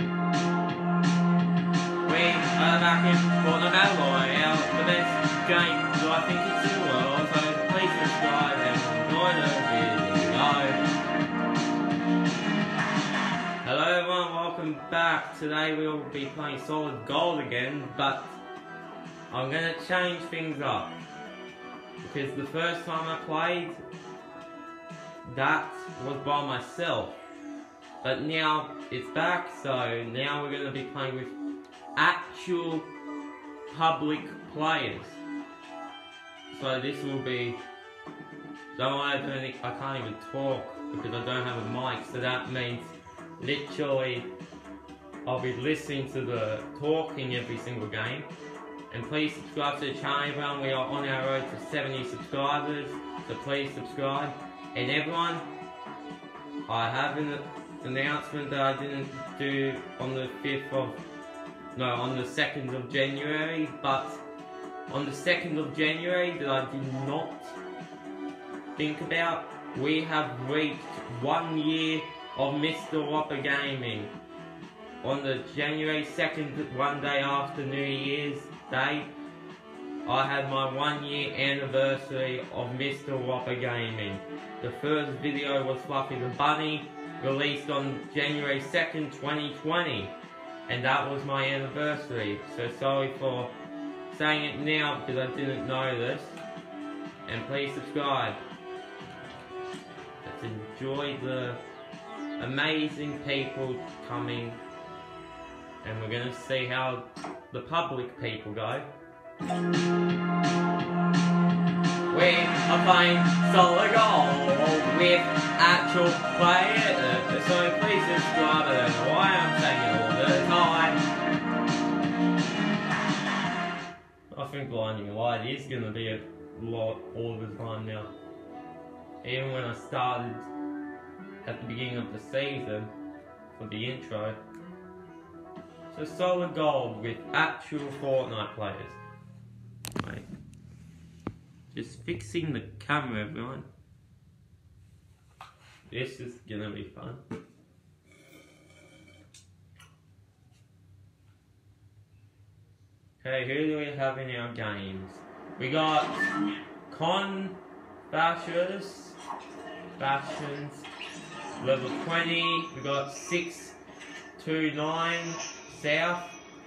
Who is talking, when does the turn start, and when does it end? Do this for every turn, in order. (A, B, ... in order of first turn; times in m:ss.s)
0:02.0-0:10.8 A
0:13.6-0:18.4 A
0:19.3-0:21.0 A
0:22.0-0:23.8 A
0:25.2-0:27.2 A
0:28.0-0:31.3 A
0:32.0-0:32.9 A
0:33.7-0:35.2 A
0:36.5-0:37.6 A
0:38.7-0:44.3 A
0:45.3-0:48.3 A
0:48.9-0:55.5 A
0:56.7-1:01.0 A
1:01.8-1:04.2 A
1:04.9-1:07.6 A
1:08.8-1:14.1 A
1:15.0-1:19.1 A
1:20.0-1:30.2 A
1:30.7-1:33.5 A
1:34.1-1:36.4 A
1:37.3-1:38.4 A
1:40.2-1:41.6 A
1:42.4-1:44.6 A
1:45.8-1:48.9 A
1:52.1-2:01.0 A
2:04.3-2:08.1 A
2:09.2-2:10.5 A
2:11.4-2:12.9 A
2:13.6-2:14.4 A
2:15.9-2:19.0 A
2:20.0-2:20.3 A
2:21.7-2:23.7 A
2:25.9-2:27.2 A
2:33.2-2:36.3 A
2:36.9-2:39.2 A
2:40.0-2:40.9 A
2:41.6-2:43.8 A
2:44.4-2:46.4 A